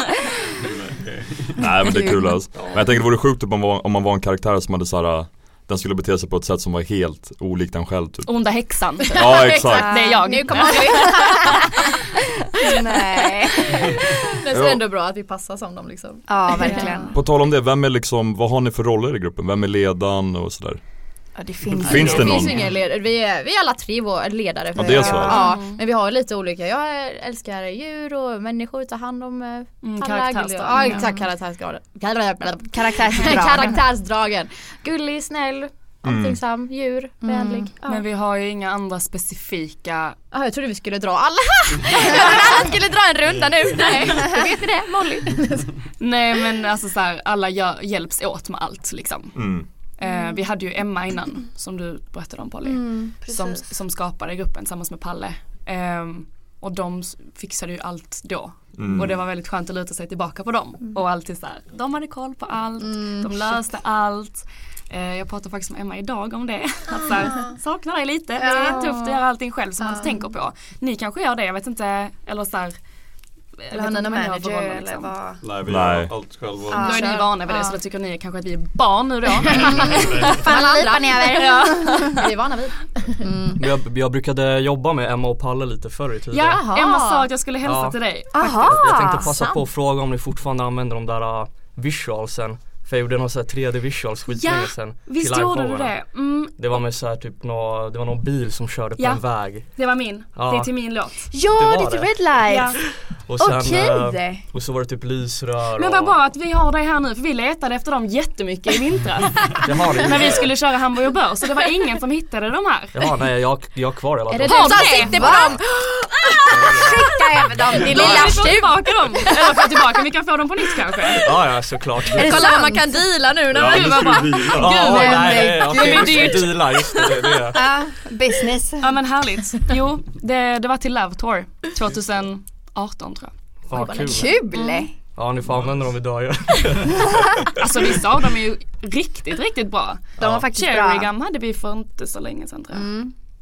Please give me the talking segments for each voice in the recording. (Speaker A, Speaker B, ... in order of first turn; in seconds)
Speaker A: 0.6-1.6, 2.5-2.8, 75.4-76.9, 123.5-124.7
Speaker B: 1.6-8.3, 9.2-10.1, 14.5-14.8, 17.1-20.8, 21.8-22.6, 24.8-25.4, 36.0-36.4, 49.4-49.6, 58.8-59.2, 75.6-76.1, 123.5-124.4
Speaker C: 1.8-2.4, 9.7-10.1, 12.6-13.9, 16.3-17.1, 21.4-22.5, 24.8-25.6, 30.7-31.1, 32.7-33.8, 37.2-37.7, 52.6-53.7, 68.4-69.0, 73.7-75.4, 76.7-77.2, 79.9-82.1, 83.2-83.6, 88.3-89.3, 101.3-102.8, 103.4-104.4, 115.0-115.6, 116.7-118.4, 122.3-122.8, 124.8-126.5, 127.5-128.9, 134.1-134.9, 140.2-141.1, 142.8-143.1
Speaker D: 8.2-11.6, 16.6-17.1, 25.3-25.8, 29.8-31.1, 37.8-40.2, 46.0-49.4, 50.0-72.8, 73.6-75.1, 76.8-80.3, 81.3-82.2, 86.3-88.8, 94.3-96.6, 99.0-99.2, 99.7-101.3, 102.5-102.8, 105.8-113.0, 114.4-115.3, 117.8-121.2, 123.7-124.2, 125.7-126.5, 128.8-133.3, 134.5-134.9, 137.6-142.9
Speaker E: 9.1-11.9, 12.6-17.1, 21.8-38.0, 40.3-45.8, 63.0-63.3, 76.8-77.7, 79.5-83.3, 86.5-87.3, 89.1-89.6, 114.3-119.6, 122.1-127.2, 133.7-134.3
Speaker F: 83.5-86.7, 87.6-88.0, 88.6-95.9, 96.6-99.7, 100.3-100.7, 101.5-102.2, 103.2-106.2, 109.6-110.5, 112.9-115.1, 116.7-116.9, 121.2-122.6, 124.5-127.6, 133.7-134.4, 135.1-137.2